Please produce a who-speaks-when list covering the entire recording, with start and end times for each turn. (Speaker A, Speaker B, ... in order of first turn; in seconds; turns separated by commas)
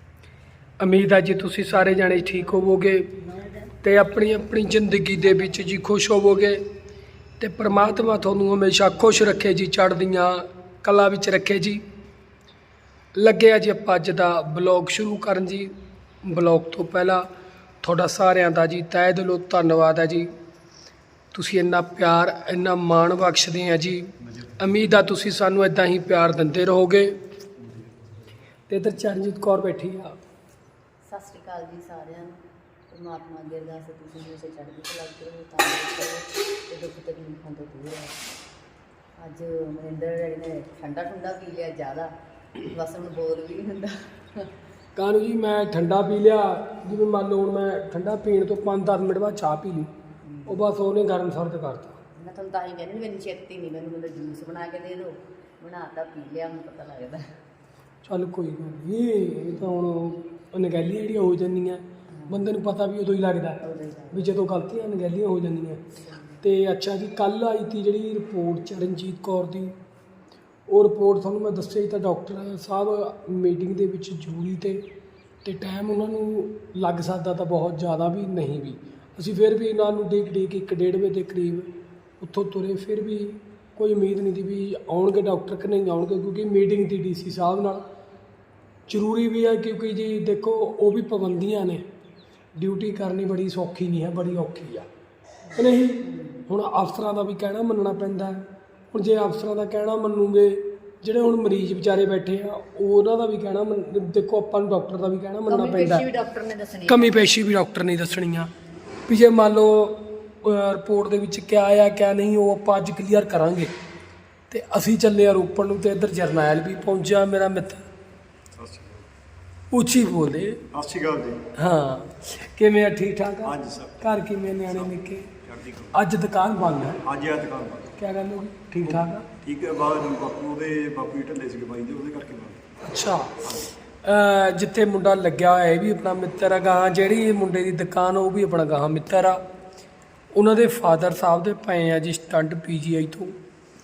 Speaker A: 0.8-3.1, Speaker A: 3.8-6.6, Speaker A: 7.4-11.8, Speaker A: 13.1-17.2, Speaker A: 17.8-20.3, Speaker A: 21.3-27.2, Speaker A: 28.7-30.1, Speaker B: 31.1-38.2, Speaker B: 39.2-44.5, Speaker A: 45.0-49.9, Speaker B: 50.2-50.6, Speaker A: 50.5-52.0, Speaker B: 52.1-57.2, Speaker A: 58.0-63.6, Speaker B: 62.1-62.4, Speaker B: 63.6-64.3, Speaker A: 64.1-65.8, Speaker B: 66.0-66.4, Speaker A: 66.4-69.8, Speaker A: 70.7-74.8, Speaker A: 75.4-87.8, Speaker A: 88.9-91.9, Speaker A: 92.6-94.9, Speaker A: 95.5-106.1, Speaker B: 96.0-96.4, Speaker B: 105.5-107.3, Speaker A: 106.9-108.5, Speaker A: 109.1-113.7, Speaker A: 114.5-117.8, Speaker C: 118.5-119.0, Speaker A: 119.7-120.6, Speaker C: 120.7-121.4, Speaker A: 121.5-125.3, Speaker C: 123.4-124.1, Speaker C: 124.6-125.9, Speaker A: 125.9-127.0, Speaker C: 127.0-127.9, Speaker A: 128.0-129.3, Speaker C: 128.9-132.6, Speaker A: 132.8-133.5, Speaker A: 134.0-139.4, Speaker A: 140.3-143.4